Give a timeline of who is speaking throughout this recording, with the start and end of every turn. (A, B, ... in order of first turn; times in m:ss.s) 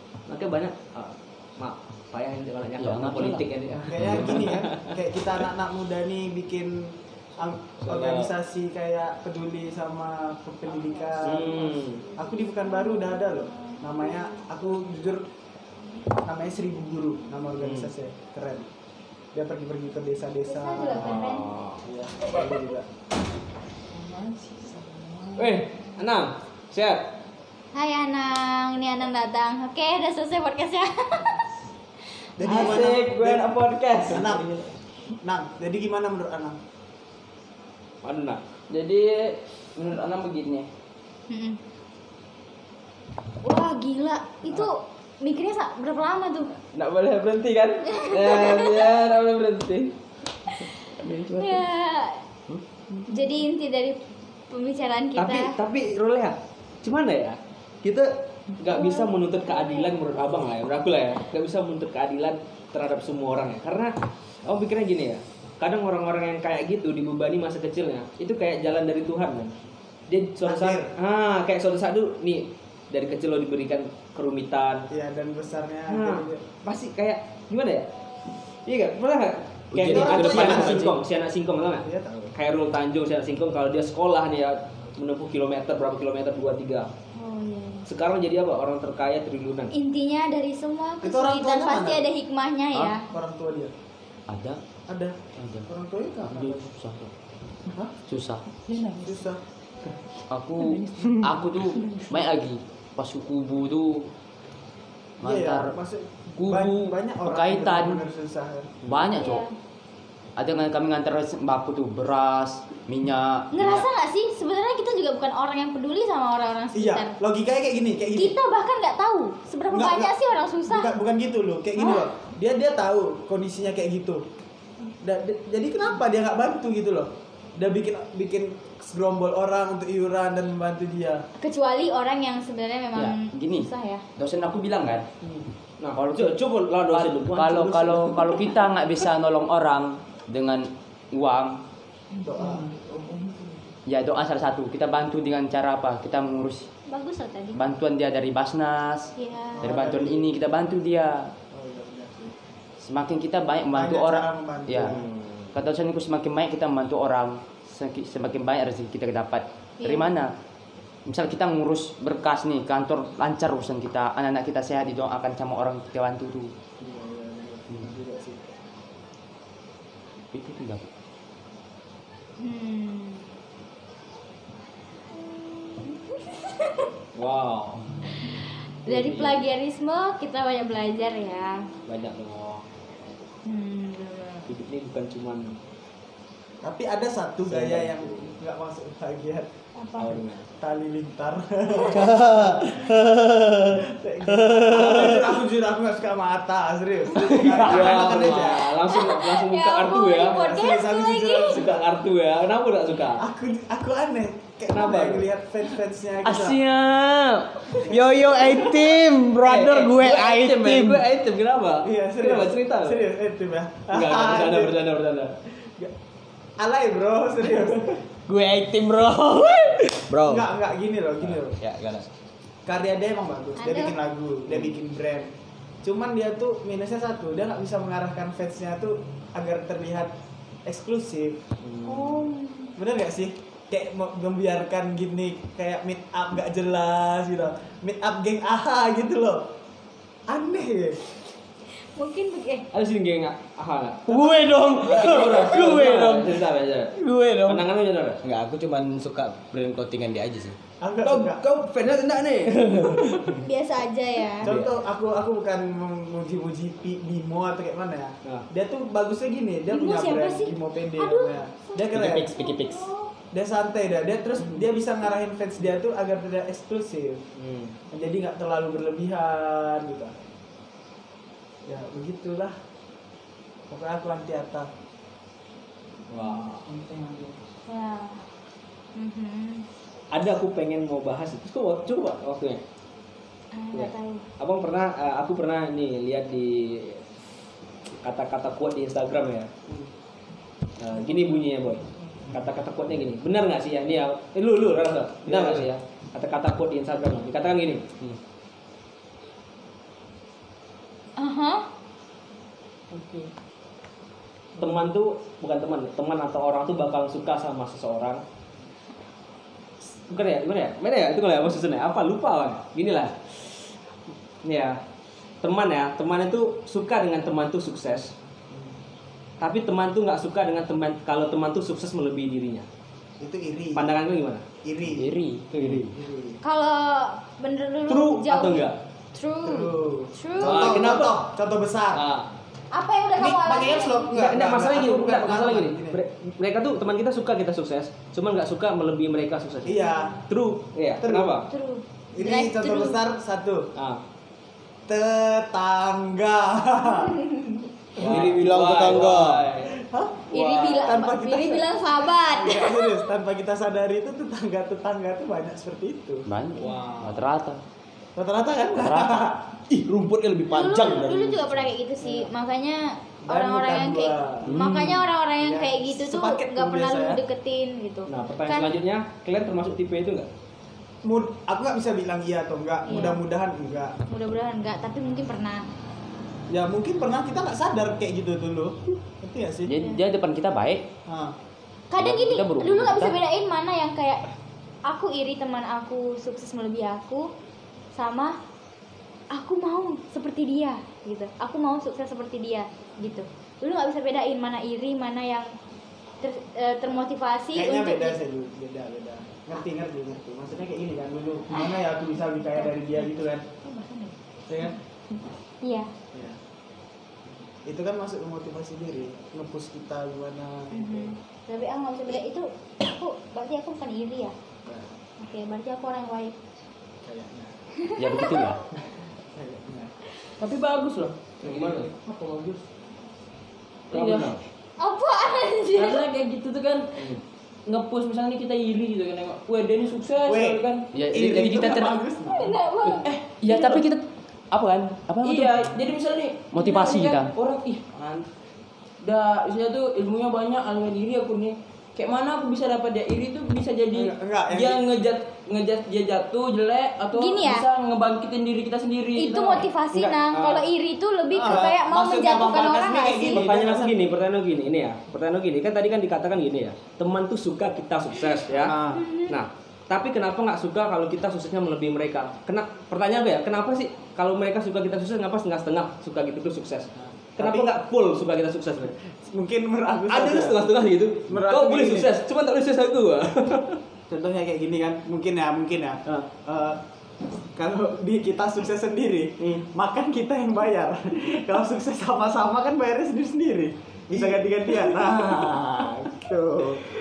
0:00.3-0:04.9 A
0:02.8-0:04.5 B
0:03.7-0:15.2 C
0:07.8-0:08.3 A
0:11.2-0:12.0 A
0:12.7-0:13.8 D
0:16.2-0:18.7 C
0:17.6-0:17.9 A
0:19.3-0:22.9 C
0:20.4-0:21.5 D
0:21.0-0:21.8 A
0:22.2-0:22.7 D
0:24.0-0:25.5 C
0:25.4-0:27.1 A
0:27.7-0:31.4 D
0:32.4-0:34.5 C
0:32.4-0:34.4 E
0:35.2-0:36.6 C
0:38.0-0:38.4 A
0:38.7-0:40.7 E
0:41.3-0:41.6 D
0:43.4-0:46.5 D
0:46.7-0:50.0 E
0:48.0-0:48.6 D
0:51.0-0:51.6 E
0:51.4-0:52.2 D
0:53.1-0:54.0 D
0:54.5-0:55.5 D
0:55.2-1:03.9 A
0:58.7-1:00.2 D
1:04.4-1:09.5 A
1:10.1-1:14.9 A
1:10.4-1:10.9 C
1:14.9-1:16.4 C
1:15.9-1:17.9 A
1:18.7-1:26.9 A
1:19.7-1:20.9 F
1:19.8-1:20.9 C
1:19.9-1:20.4 B
1:21.8-1:22.3 C
1:27.2-1:27.9 D
1:27.9-1:29.7 A
1:29.7-1:33.0 D
1:31.0-1:32.0 C
1:32.7-1:33.7 C
1:34.3-1:34.6 B
1:34.9-1:36.7 C
1:35.4-1:35.7 B
1:36.3-1:37.1 B
1:37.7-1:38.0 C
1:38.1-1:38.4 B
1:38.9-1:39.4 C
1:40.3-1:44.1 B
1:45.2-1:45.8 B
1:45.2-1:48.8 C
1:46.4-1:48.0 B
1:48.8-1:49.1 A
1:48.9-1:49.4 B
1:49.2-1:49.5 D
1:50.4-1:53.8 B
1:53.5-1:57.2 D
1:56.7-1:58.3 C
1:58.1-2:00.9 D
1:59.7-2:04.2 C
2:01.8-2:02.0 D
2:05.0-2:11.2 C
2:11.4-2:14.0 D
2:13.0-2:15.1 B
2:15.8-2:18.4 A
2:16.0-2:16.4 B
2:16.9-2:21.6 B
2:22.2-2:23.6 C
2:23.9-2:26.7 B
2:26.9-2:27.7 D
2:27.5-2:31.3 B
2:29.2-2:29.8 D
2:29.6-2:30.3 C
2:31.5-2:32.3 C
2:32.8-2:35.0 B
2:33.7-2:35.1 C
2:34.8-2:35.5 A
2:35.5-2:40.3 B
2:39.8-2:40.2 D
2:41.0-2:46.5 B
2:46.8-2:48.4 C
2:50.3-2:50.9 B
2:52.4-2:53.3 D
2:55.8-2:56.9 D
2:57.2-2:57.8 A
2:58.1-3:01.7 D
2:58.9-2:59.5 A
3:01.9-3:02.6 A
3:03.4-3:04.5 D
3:04.5-3:05.6 A
3:06.6-3:09.5 C
3:07.5-3:08.3 A
3:09.8-3:10.2 D
3:10.0-3:10.4 A
3:10.6-3:12.9 C
3:11.9-3:15.4 F
3:13.8-3:18.7 C
3:17.5-3:18.2 B
3:17.5-3:20.4 A
3:17.6-3:17.8 F
3:18.6-3:21.7 D
3:20.2-3:21.8 C
3:21.5-3:23.2 A
3:23.2-3:26.6 C
3:24.7-3:25.3 A
3:26.3-3:27.2 F
3:26.4-3:27.1 B
3:27.8-3:31.0 F
3:29.4-3:33.1 A
3:31.8-3:34.7 C
3:33.9-3:35.3 A
3:36.6-3:38.0 C
3:38.3-3:40.5 F
3:40.2-3:41.6 C
3:41.3-3:42.0 F
3:42.7-3:45.3 C
3:43.6-3:44.0 D
3:45.8-3:50.1 C
3:50.7-3:51.4 C
3:51.6-3:52.2 A
3:51.8-3:52.7 D
3:52.8-3:59.4 C
4:00.3-4:01.0 C
4:02.0-4:02.7 D
4:02.7-4:06.9 A
4:04.1-4:06.4 F
4:07.0-4:07.6 F
4:07.5-4:08.2 A
4:08.2-4:10.6 F
4:10.8-4:11.4 C
4:11.0-4:13.4 A
4:12.4-4:13.2 F
4:13.4-4:14.5 D
4:14.4-4:22.3 C
4:14.4-4:14.7 A
4:19.7-4:23.1 D
4:21.9-4:22.8 F
4:23.3-4:27.2 C
4:27.4-4:27.7 A
4:27.9-4:30.1 C
4:31.7-4:32.6 C
4:33.7-4:34.7 C
4:36.1-4:36.6 A
4:36.2-4:36.5 D
4:36.7-4:37.4 C
4:37.7-4:38.2 D
4:39.0-4:39.6 D
4:40.1-4:42.6 A
4:43.5-4:44.2 D
4:43.7-4:47.0 A
4:48.0-4:49.5 A
4:50.8-4:57.9 A
4:55.3-4:55.6 F
5:01.2-5:01.6 D
5:04.6-5:08.2 A
5:10.1-5:13.4 A
5:14.4-5:14.8 A
5:15.4-5:18.1 A
5:19.4-5:22.7 A
5:23.2-5:24.0 C
5:23.8-5:24.4 A
5:24.6-5:25.2 C
5:24.9-5:25.8 B
5:25.5-5:25.9 A
5:25.8-5:26.4 C
5:26.4-5:31.0 D
5:27.9-5:28.8 A
5:29.4-5:32.0 C
5:30.4-5:31.3 A
5:32.0-5:32.3 A
5:32.7-5:34.1 D
5:33.2-5:36.0 C
5:34.1-5:41.5 A
5:39.7-5:40.2 C
5:41.0-5:41.4 C
5:41.5-5:43.0 D
5:42.1-5:43.7 C
5:44.9-5:47.1 C
5:46.8-5:47.6 D
5:48.0-5:49.8 A
5:48.0-5:49.5 F
5:48.0-5:48.3 C
5:48.8-5:56.3 C
5:50.3-5:53.0 D
5:56.3-5:57.6 B
5:56.6-5:57.1 D
5:56.6-5:57.1 A
5:58.2-5:59.4 C
5:58.7-5:59.3 B
5:59.7-6:01.6 F
6:00.5-6:08.8 D
6:02.0-6:02.3 C
6:03.3-6:07.2 C
6:04.5-6:05.0 B
6:08.1-6:10.3 A
6:11.0-6:14.0 C
6:12.9-6:13.2 D
6:14.1-6:15.6 D
6:16.5-6:19.7 C
6:19.7-6:20.8 B
6:21.1-6:21.3 C
6:21.9-6:24.2 D
6:22.0-6:23.2 B
6:24.9-6:27.3 D
6:28.0-6:28.4 D
6:29.3-6:35.5 D
6:36.2-6:38.2 D
6:37.5-6:43.4 C
6:43.6-6:44.1 D
6:44.5-6:44.7 C
6:45.1-6:45.9 D
6:47.6-6:51.1 C
6:50.7-6:54.3 D
6:54.6-6:54.9 C
6:55.2-6:56.4 D
6:57.0-6:57.5 C
6:57.9-6:58.5 D
6:58.0-6:58.6 B
6:59.4-6:59.9 C
7:00.4-7:01.7 E
7:01.4-7:01.9 A
7:01.5-7:02.6 C
7:03.9-7:04.4 E
7:03.9-7:04.4 A
7:04.8-7:06.0 D
7:05.7-7:07.0 E
7:07.7-7:11.4 E
7:10.2-7:12.6 C
7:10.9-7:12.0 B
7:12.3-7:13.0 D
7:13.0-7:13.9 E
7:13.4-7:15.7 B
7:15.2-7:18.3 E
7:16.5-7:17.3 B
7:19.0-7:29.7 E
7:23.9-7:24.8 C
7:27.1-7:27.7 D
7:29.2-7:33.4 D
7:29.9-7:30.6 A
7:31.3-7:34.1 C
7:33.2-7:38.7 A
7:38.5-7:39.0 C
7:38.9-7:39.4 D
7:39.3-7:49.0 A
7:47.0-7:47.7 C
7:49.1-7:50.7 C
7:50.1-7:53.8 A
7:51.3-7:52.1 C
7:54.1-7:56.8 C
7:57.6-8:06.8 C
7:59.4-7:59.6 A
8:04.1-8:04.4 A
8:05.0-8:05.5 A